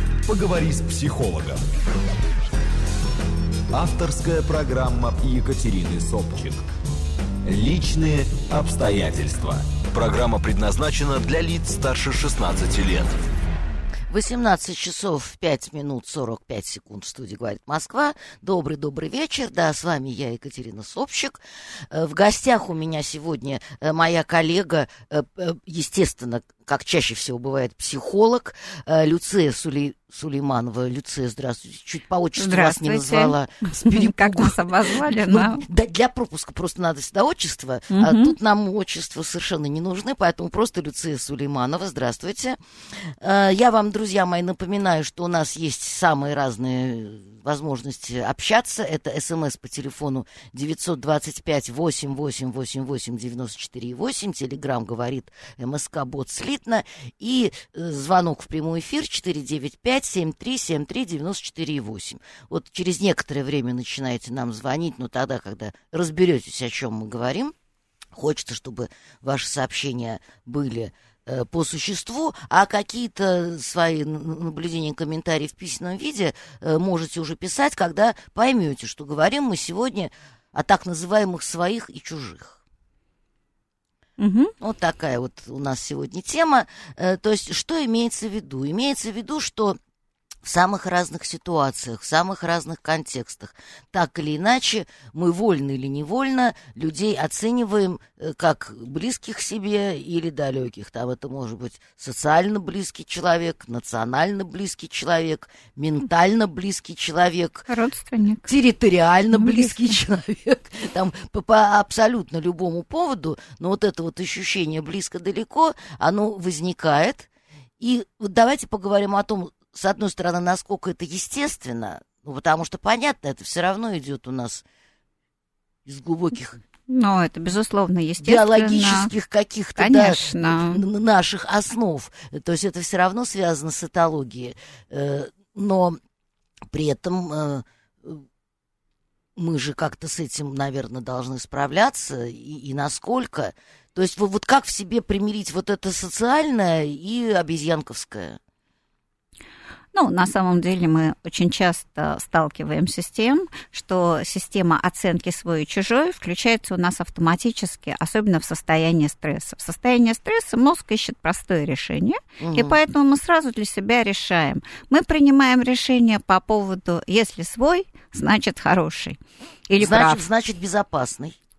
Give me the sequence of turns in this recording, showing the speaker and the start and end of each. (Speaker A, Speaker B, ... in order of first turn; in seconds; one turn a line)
Speaker A: 0.3-1.7
Speaker A: 3.7-6.6
Speaker A: 7.5-13.2
Speaker B: 14.1-67.5
Speaker C: 32.4-35.6
Speaker C: 37.9-38.4
Speaker B: 68.1-82.6
Speaker C: 84.2-84.5
Speaker B: 84.6-89.8
Speaker B: 90.4-107.7
Speaker C: 107.7-108.5
Speaker B: 108.5-117.3
Speaker C: 109.3-110.0
Speaker B: 117.8-124.6
Speaker B: 125.9-126.6
Speaker C: 126.9-129.1
Speaker B: 128.2-136.0
Speaker C: 129.8-130.8
Speaker B: 136.7-138.2
Speaker B: 139.4-148.4
Speaker C: 149.9-169.2
Speaker B: 162.4-162.8
Speaker C: 169.7-170.2
Speaker B: 169.8-171.4